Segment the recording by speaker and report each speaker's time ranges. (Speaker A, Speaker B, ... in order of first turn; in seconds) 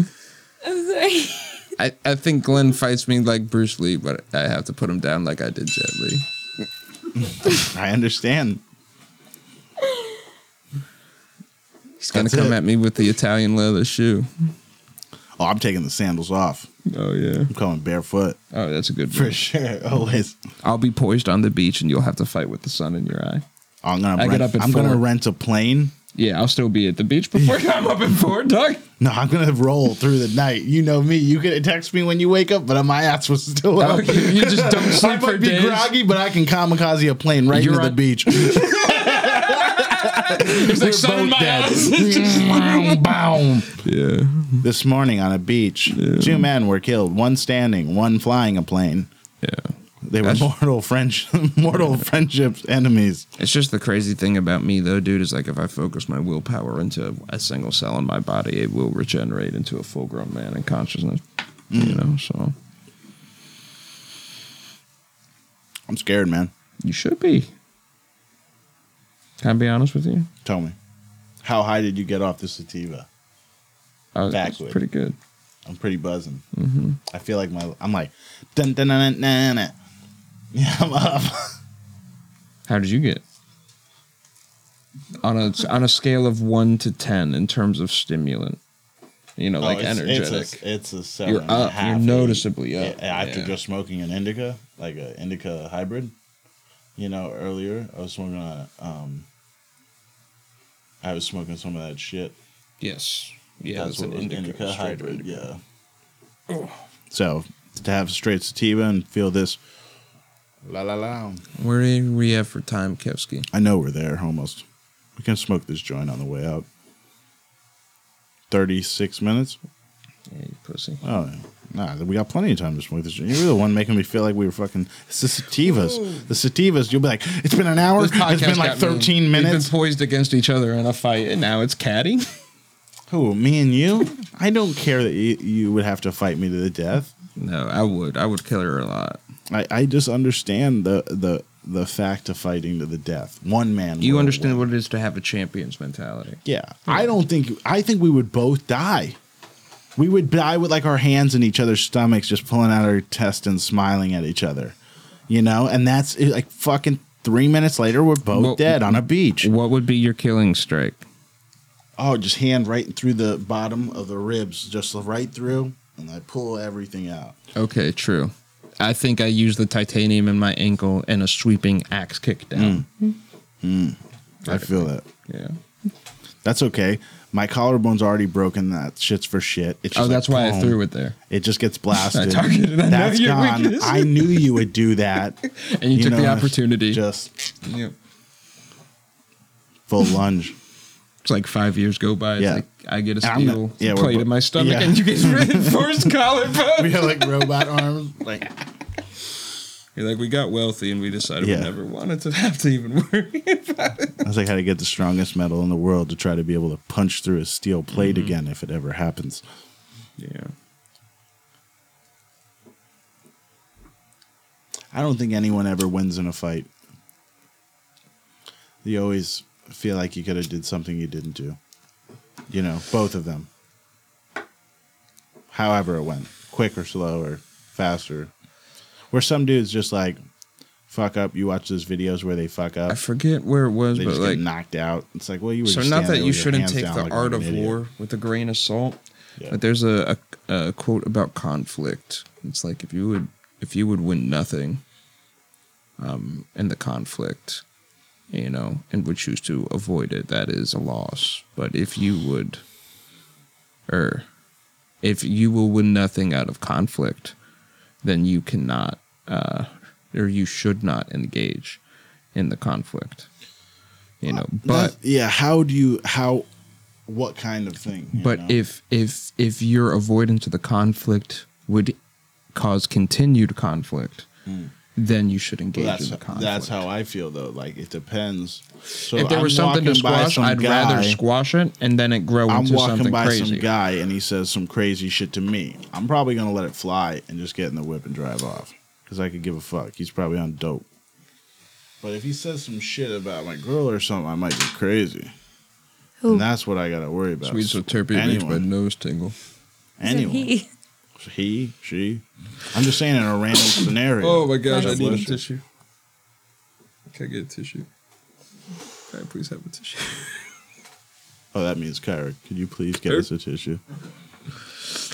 Speaker A: 0.6-1.7, 9.8-10.2, 300.0-300.7, 304.6-305.2
Speaker B: 1.8-6.2, 12.0-14.3, 16.9-17.5, 18.5-19.4, 20.6-23.4, 24.1-25.0, 26.1-28.9, 33.8-35.9, 37.5-43.2, 43.7-44.6, 45.9-46.5, 49.4-50.5, 51.7-52.0, 53.4-61.2, 61.7-62.5, 66.8-67.5, 69.4-70.3, 74.1-75.2, 76.5-77.0, 82.7-83.2, 85.2-88.6, 89.4-90.6, 91.2-93.5, 102.8-105.4, 106.5-106.8, 111.6-113.5, 120.3-121.0, 125.6-126.2, 128.0-132.3, 137.3-139.2, 144.0-147.1, 158.3-161.0, 167.5-173.2, 174.4-175.6, 179.9-181.2, 181.9-184.7, 185.4-187.0, 187.6-187.9, 191.2-197.6, 199.9-204.3, 207.9-208.3, 210.2-210.5, 232.9-234.4, 235.6-244.8, 246.0-247.6, 248.3-252.6, 253.9-254.2, 255.0-257.3, 258.0-261.8, 262.3-263.3, 264.2-264.9, 268.1-271.9, 272.5-274.3, 274.9-276.9, 279.1-283.7, 297.4-299.3, 304.2-305.6, 307.1-307.9, 309.1-310.5
Speaker C: 7.2-8.6, 12.1-12.6, 15.4-16.7, 17.5-18.4, 19.1-20.3, 23.8-25.9, 27.3-27.6, 29.0-43.8, 44.6-49.1, 50.0-53.3, 61.7-62.0, 65.9-66.5, 70.4-70.8, 71.4-73.1, 74.3-74.8, 75.7-76.4, 77.1-79.7, 80.5-81.5, 89.6-96.1, 97.0-99.3, 101.0-102.3, 103.7-105.6, 107.1-109.6, 110.7-111.4, 113.5-114.6, 115.2-116.7, 118.5-119.6, 121.0-129.7, 133.1-137.1, 139.5-144.7, 146.4-149.2, 149.9-154.7, 155.3-159.5, 162.0-167.3, 172.5-172.9, 173.6-175.1, 176.4-187.5, 189.9-190.6, 192.4-192.6, 193.2-196.0, 196.7-198.5, 201.4-201.7, 204.2-209.4, 214.9-216.7, 218.8-221.6, 222.5-223.5, 225.5-228.3, 229.1-230.2, 230.9-233.0, 233.9-237.8, 264.2-266.4, 267.1-268.6, 274.4-274.7, 275.7-281.2, 282.5-290.9, 292.0-295.3, 296.3-298.6, 300.0-300.5, 301.2-305.4, 311.5-313.8